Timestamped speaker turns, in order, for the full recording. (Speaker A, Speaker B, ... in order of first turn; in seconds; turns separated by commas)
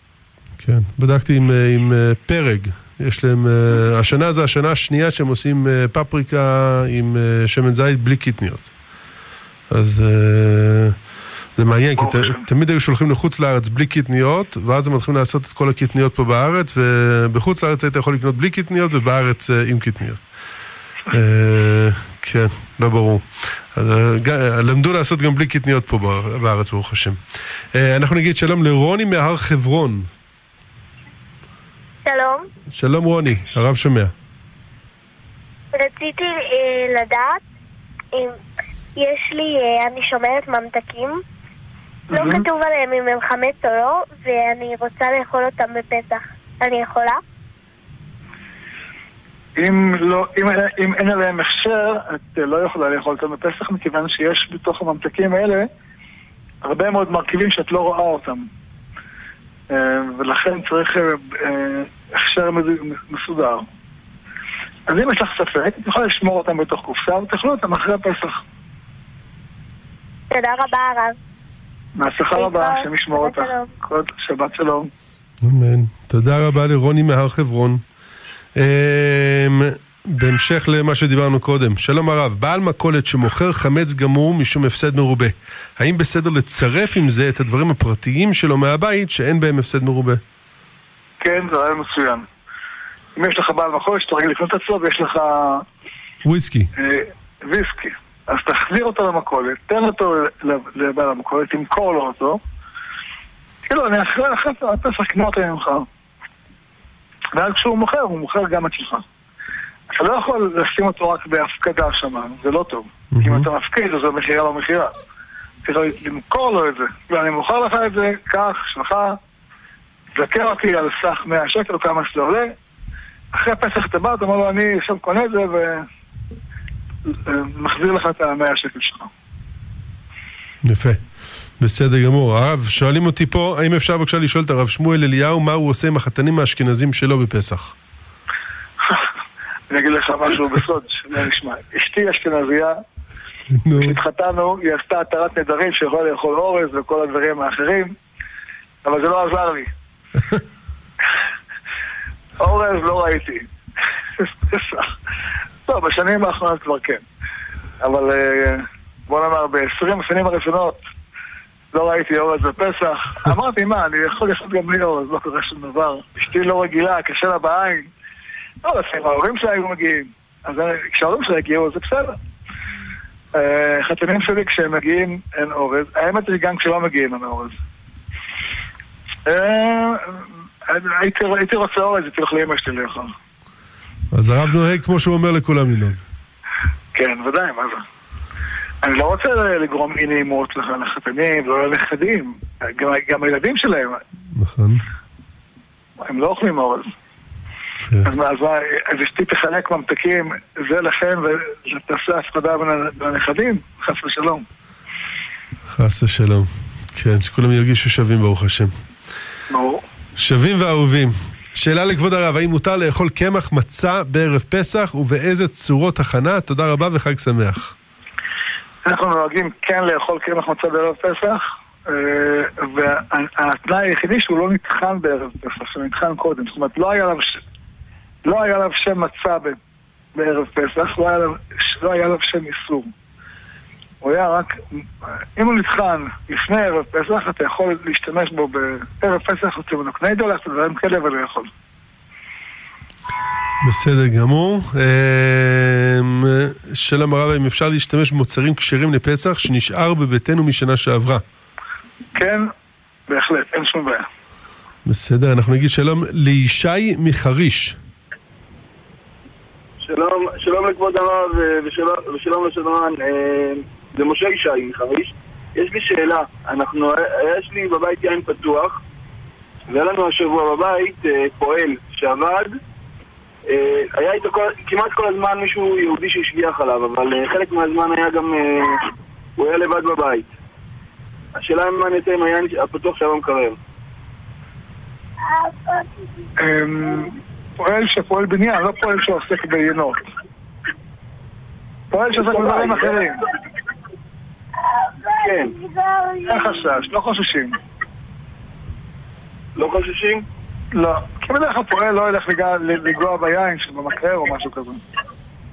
Speaker A: 0.6-8.7, Speaker A: 9.7-11.0, Speaker A: 11.6-20.2, Speaker B: 12.0-12.4, Speaker A: 21.1-27.2, Speaker A: 27.7-30.1, Speaker C: 32.0-32.5, Speaker A: 32.7-34.1, Speaker C: 35.7-37.4, Speaker C: 39.0-41.2, Speaker B: 42.1-42.4, Speaker C: 42.1-47.2, Speaker B: 49.6-55.7, Speaker B: 56.6-58.5, Speaker B: 59.7-63.7, Speaker B: 64.9-68.4, Speaker C: 70.3-71.2, Speaker B: 72.0-74.9, Speaker C: 72.3-73.7, Speaker A: 75.4-77.8, Speaker A: 78.5-90.2, Speaker B: 91.2-92.2, Speaker B: 93.1-95.7, Speaker A: 96.2-96.7, Speaker B: 96.8-102.4, Speaker B: 103.6-105.9, Speaker B: 107.3-109.0, Speaker B: 109.9-114.9, Speaker A: 113.1-113.5, Speaker B: 115.6-119.2, Speaker B: 120.2-122.5, Speaker B: 123.3-125.8, Speaker B: 127.1-129.1, Speaker A: 130.6-131.0, Speaker A: 131.6-137.7, Speaker B: 138.8-139.1, Speaker B: 139.7-142.8, Speaker A: 143.6-144.0, Speaker B: 143.7-147.9, Speaker B: 148.8-149.7, Speaker B: 152.4-153.5, Speaker B: 154.2-154.9, Speaker B: 155.7-157.0, Speaker B: 157.8-160.8, Speaker B: 161.7-167.9, Speaker B: 168.6-172.1, Speaker B: 173.3-177.6, Speaker B: 179.2-183.1, Speaker A: 184.1-186.0, Speaker B: 186.9-187.8, Speaker B: 188.8-194.0, Speaker A: 194.3-194.8, Speaker B: 196.0-196.9, Speaker A: 197.8-198.1, Speaker B: 198.0-204.4, Speaker A: 205.7-208.7, Speaker B: 209.5-209.8, Speaker A: 210.2-217.7, Speaker B: 218.8-227.4, Speaker B: 228.2-229.6, Speaker B: 230.1-232.9, Speaker B: 234.0-241.5, Speaker A: 243.6-251.2, Speaker B: 252.2-252.5, Speaker B: 253.1-254.1, Speaker A: 254.8-257.8, Speaker D: 259.8-268.8, Speaker D: 269.7-272.6, Speaker D: 273.5-280.3, Speaker D: 281.3-283.6, Speaker B: 286.4-290.0, Speaker B: 291.9-293.2, Speaker D: 292.1-293.1, Speaker D: 295.2-295.6, Speaker B: 296.2-297.6, Speaker D: 299.6-300.2, Speaker B: 300.7-304.8